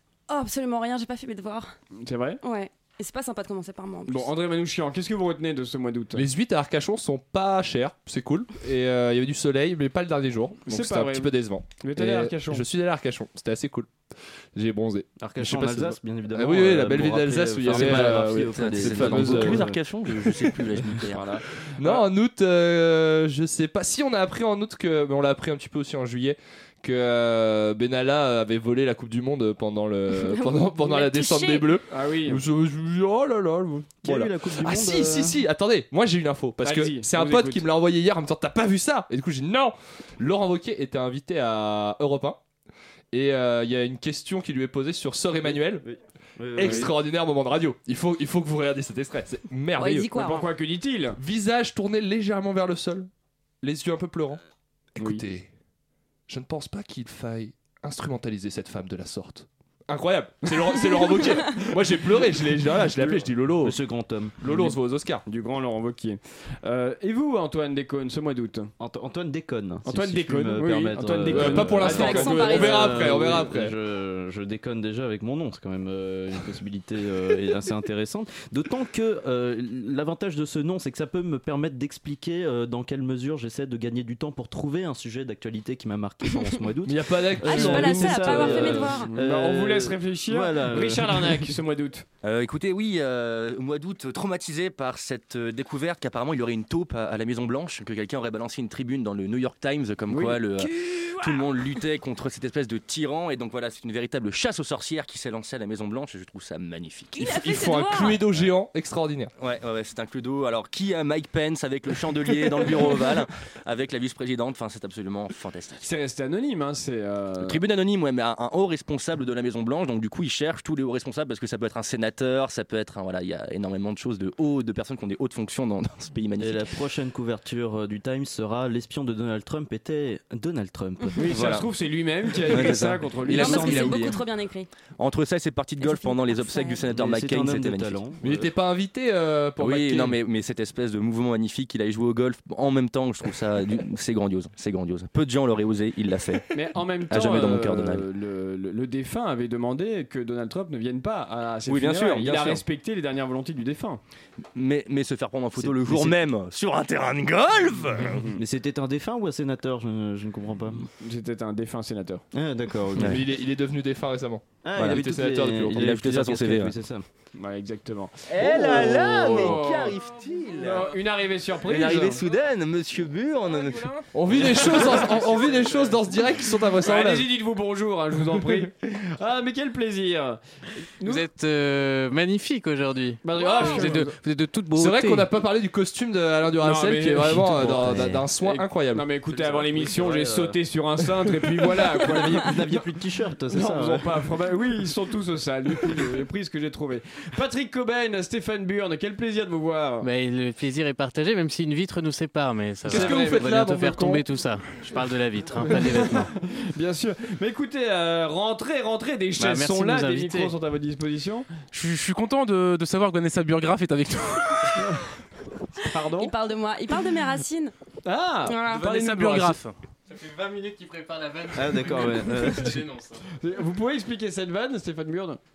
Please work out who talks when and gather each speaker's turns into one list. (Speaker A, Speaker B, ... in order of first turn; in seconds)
Speaker A: 0.3-1.7, 2.4-4.3, 30.1-31.7, 49.8-50.4, 71.8-73.0, 87.4-89.1, 100.6-101.5, 107.2-108.2, 133.3-134.7, 135.8-136.8, 216.2-217.7
Speaker B: 2.0-2.4, 4.1-6.3, 10.7-12.7, 31.9-32.4, 36.6-37.7, 46.6-46.9, 50.1-51.2, 55.0-55.2, 60.5-61.6, 65.3-68.7, 69.8-72.8, 88.0-92.0, 100.1-100.4, 115.8-117.6, 131.2-133.9, 146.5-154.0, 161.0-162.2, 167.4-169.9, 170.6-172.2, 176.8-180.4, 181.0-181.2, 183.2-184.1, 186.6-192.7, 193.5-200.1, 202.9-203.5, 205.6-211.5, 215.9-216.3, 218.1-219.6, 223.4-225.4
Speaker C: 6.2-13.9, 14.6-19.7, 21.8-42.4, 43.1-45.9, 46.5-50.1, 51.2-53.1, 53.6-54.4, 55.0-55.5, 56.3-63.8, 64.4-65.2, 71.3-73.8, 86.9-88.8, 107.2-109.3, 138.2-140.2, 163.0-165.8, 174.1-177.3, 184.8-189.1, 202.9-204.3
Speaker D: 15.2-21.4, 34.0-35.4, 45.5-46.9, 63.6-64.4, 68.8-91.5, 126.4-131.6, 132.5-134.1, 136.9-138.5, 155.6-156.2, 158.4-160.9, 162.3-163.3, 164.6-167.1, 168.4-169.5, 189.8-190.6, 191.6-194.2, 221.5-222.8
Speaker E: 17.7-21.4, 92.2-107.2, 109.4-115.9, 117.4-126.7, 131.3-131.6, 132.5-134.2, 135.0-138.0, 139.6-146.5, 147.1-148.1, 151.7-152.6, 154.5-158.2, 164.8-165.0, 165.6-166.7, 168.3-170.9, 171.7-173.9
Speaker F: 173.4-176.4, 183.4-184.0, 211.7-214.9, 218.6-219.8
Speaker G: 181.1-185.3, 200.0-206.3, 209.4-210.5, 220.1-223.2